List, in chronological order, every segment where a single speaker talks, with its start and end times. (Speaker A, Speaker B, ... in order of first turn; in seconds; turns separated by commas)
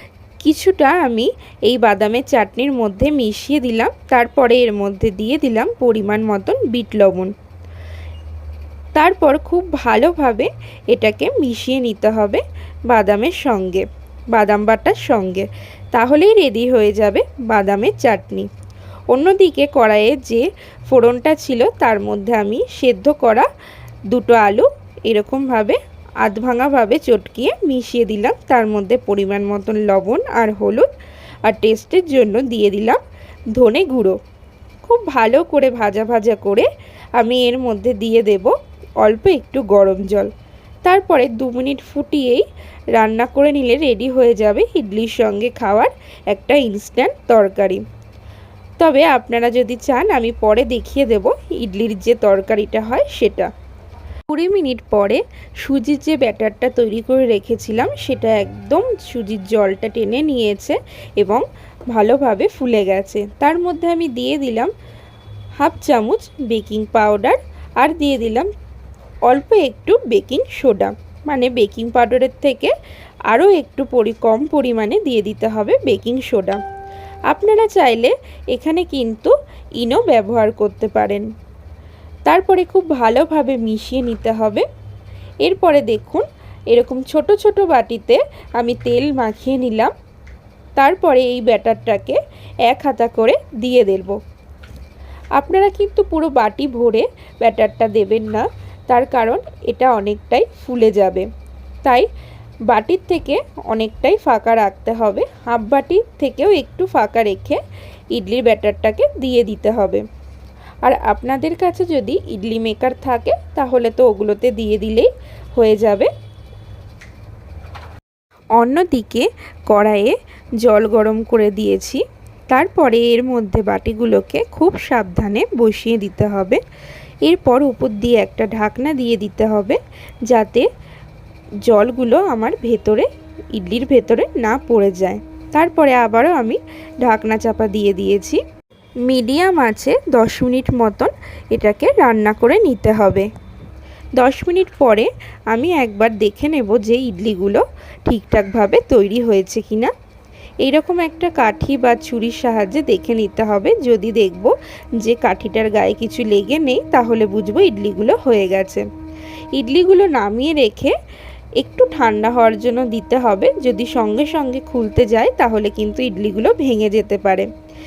Speaker A: 0.4-7.3, Speaker A: 8.9-18.5, Speaker A: 19.1-23.5, Speaker A: 24.1-30.9, Speaker A: 31.4-33.0, Speaker A: 33.5-34.2, Speaker A: 34.8-40.3, Speaker A: 40.8-47.8, Speaker A: 48.8-53.5, Speaker A: 54.3-64.7, Speaker A: 65.6-68.5, Speaker A: 69.3-72.7, Speaker A: 73.3-76.6, Speaker A: 77.3-81.3, Speaker A: 82.3-84.7, Speaker A: 85.4-89.9, Speaker A: 90.8-94.2, Speaker A: 95.3-101.3, Speaker A: 101.8-102.1, Speaker A: 102.7-110.0, Speaker A: 110.8-116.1, Speaker A: 118.5-126.6, Speaker A: 127.2-130.7, Speaker A: 131.7-138.4, Speaker A: 139.1-143.3, Speaker A: 144.2-149.9, Speaker A: 150.6-158.8, Speaker A: 159.5-160.9, Speaker A: 161.6-167.5